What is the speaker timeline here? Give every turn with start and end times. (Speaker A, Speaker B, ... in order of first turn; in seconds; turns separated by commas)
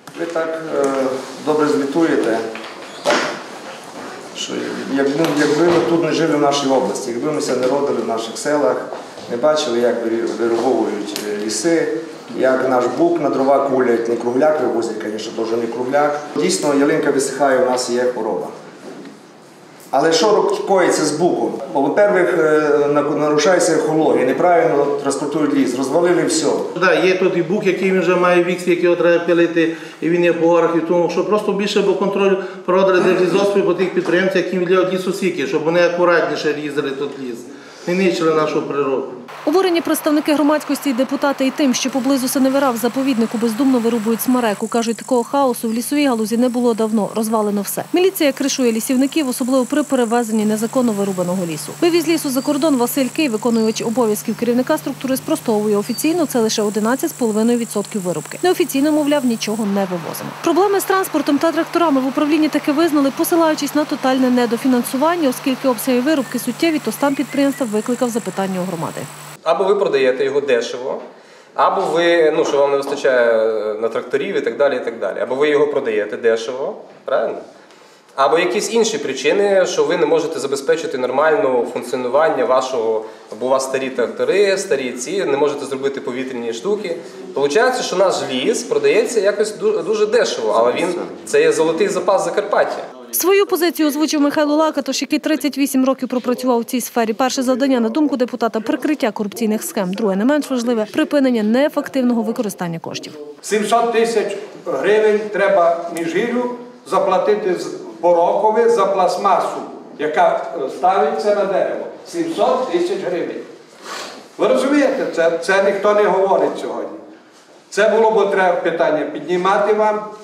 Speaker A: 0.1-2.4, Speaker A: 4.3-18.5, Speaker A: 19.9-26.7, Speaker B: 26.8-39.2, Speaker C: 39.4-69.1, Speaker D: 69.4-71.0, Speaker D: 71.5-77.4, Speaker D: 78.2-92.9, Speaker C: 93.1-103.2, Speaker E: 103.4-113.5, Speaker E: 114.4-117.0, Speaker E: 117.7-120.1